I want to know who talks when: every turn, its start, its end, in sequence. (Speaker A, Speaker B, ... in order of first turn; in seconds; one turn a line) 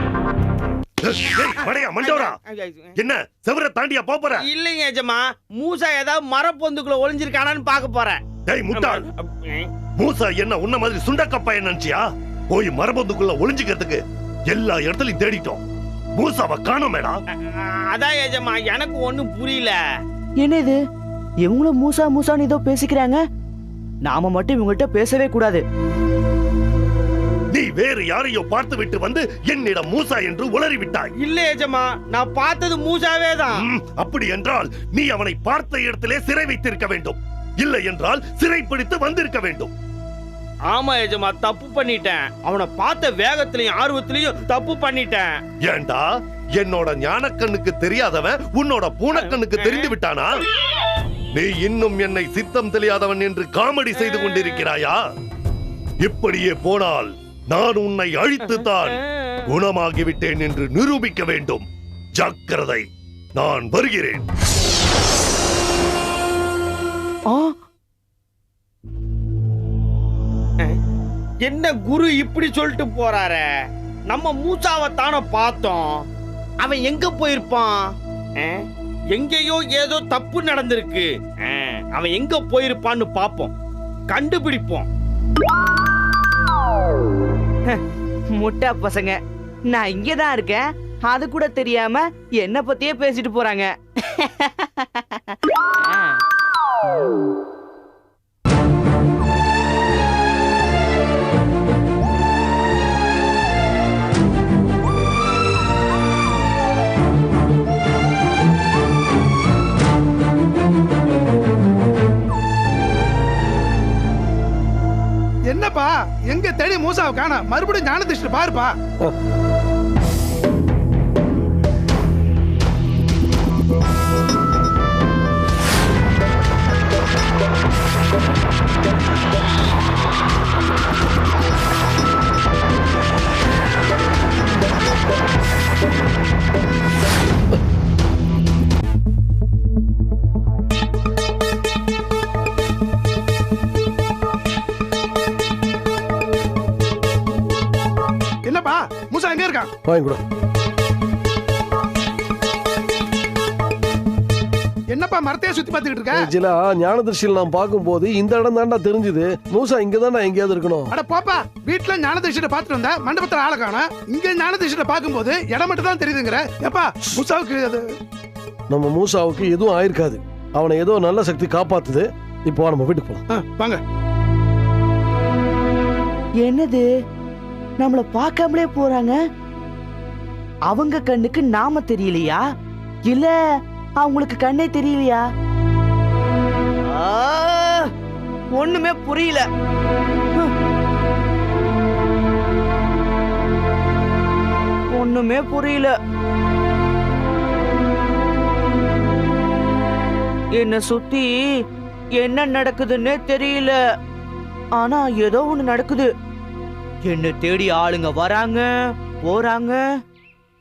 Speaker A: 1.0-2.3
Speaker B: 1.6-2.9
Speaker A: 3.0-4.5
Speaker B: 4.4-8.2
Speaker A: 8.5-9.0
Speaker B: 8.7-9.7
Speaker A: 10.0-15.6
Speaker A: 16.1-17.2
Speaker B: 17.4-19.8
Speaker C: 20.4-20.8
Speaker C: 21.4-23.2
Speaker C: 24.0-25.6
Speaker A: 27.5-31.1
Speaker B: 31.2-33.6
Speaker A: 33.6-39.7
Speaker B: 40.7-45.4
Speaker A: 45.6-50.3
Speaker B: 49.1-49.9
Speaker A: 51.3-55.0
Speaker B: 54.1-54.6
Speaker A: 56.0-58.9
Speaker A: 59.5-61.6
Speaker A: 62.2-64.2
Speaker B: 71.4-73.5
Speaker B: 74.1-76.0
Speaker B: 76.6-83.5
Speaker B: 84.1-84.9
Speaker C: 88.3-95.3
Speaker C: 95.9-96.1
Speaker D: 115.5-118.8
Speaker D: 148.4-149.7
Speaker E: 149.8-150.2
Speaker D: 154.9-156.3
Speaker E: 156.1-160.9
Speaker D: 160.9-167.8
Speaker E: 168.7-173.2
Speaker D: 173.3-173.8
Speaker C: 176.4-176.9
Speaker C: 177.8-179.2
Speaker C: 180.7-182.4
Speaker C: 183.1-183.3
Speaker C: 184.0-185.2
Speaker C: 186.9-187.9
Speaker C: 188.5-189.5
Speaker C: 194.9-195.9
Speaker C: 200.6-201.4
Speaker C: 202.2-203.8
Speaker C: 204.8-206.1
Speaker C: 207.1-209.8